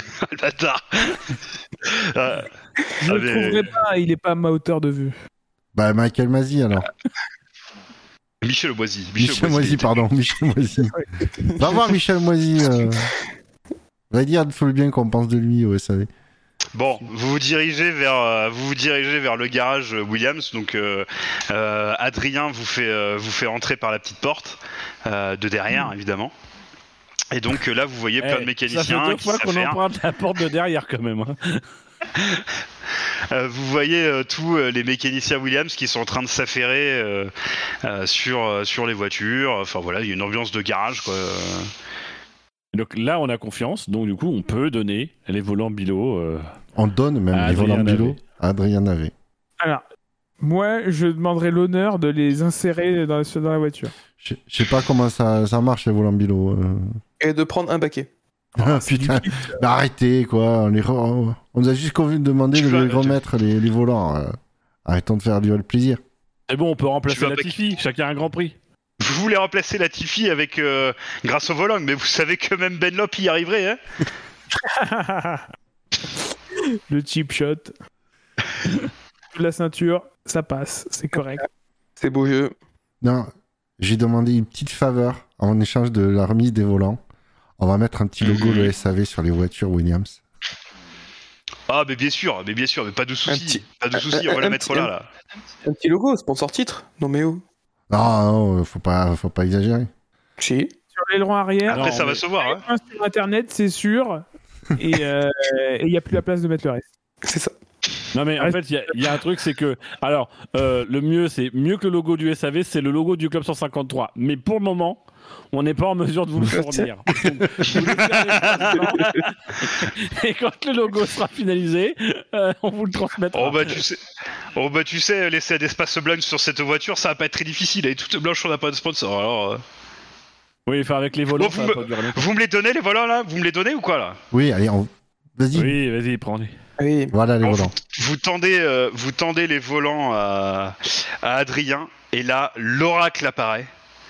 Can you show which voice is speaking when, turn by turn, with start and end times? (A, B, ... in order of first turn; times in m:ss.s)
0:00.2-0:02.5 A
0:03.0-0:05.1 B
0:03.0-0:03.7 A
0:05.7-0:06.9 C
0:08.4-0:10.0 A
0:09.2-0:11.0 C
0:11.5-0:11.8 D
0:11.6-0:13.1 C
0:14.1-0:16.1 C
0:16.7-0:26.3 A
0:27.3-0:29.8 A
0:28.2-0:31.6 E
0:32.1-0:32.4 A
0:33.3-0:37.3 A
0:37.8-0:41.7 A
0:42.7-0:46.5 E
0:46.8-0:49.1 C
0:47.3-0:48.2 E
0:50.4-0:53.9 B
0:54.2-0:56.9 C
0:57.2-0:58.1 D
0:58.5-0:59.6 B
0:58.6-1:06.0 C
1:02.5-1:03.2 A
1:06.5-1:08.6 E
1:07.1-1:07.6 A
1:09.0-1:13.8 A
1:14.6-1:15.4 B
1:16.9-1:17.7 B
1:19.3-1:21.4 B
1:22.0-1:22.5 D
1:23.0-1:27.0 C
1:27.6-1:30.2 C
1:28.2-1:28.7 A
1:31.7-1:35.1 A
1:33.3-1:34.9 D
1:35.6-1:37.4 D
1:37.9-1:39.9 C
1:40.4-1:40.7 D
1:41.0-1:44.2 B
1:41.7-1:42.6 A
1:41.7-1:42.2 E
1:44.7-1:46.8 B
1:47.2-1:47.5 D
1:48.1-2:03.8 E
1:56.5-1:56.9 D
1:57.7-1:58.7 A
1:57.8-1:59.1 B
1:58.8-1:59.3 D
2:03.3-2:04.0 A
2:04.6-2:09.6 A
2:10.6-2:12.3 E
2:11.4-2:14.2 A
2:14.3-2:15.8 C
2:15.5-2:16.5 E
2:16.8-2:17.1 D
2:17.1-2:17.7 C
2:17.4-2:23.7 A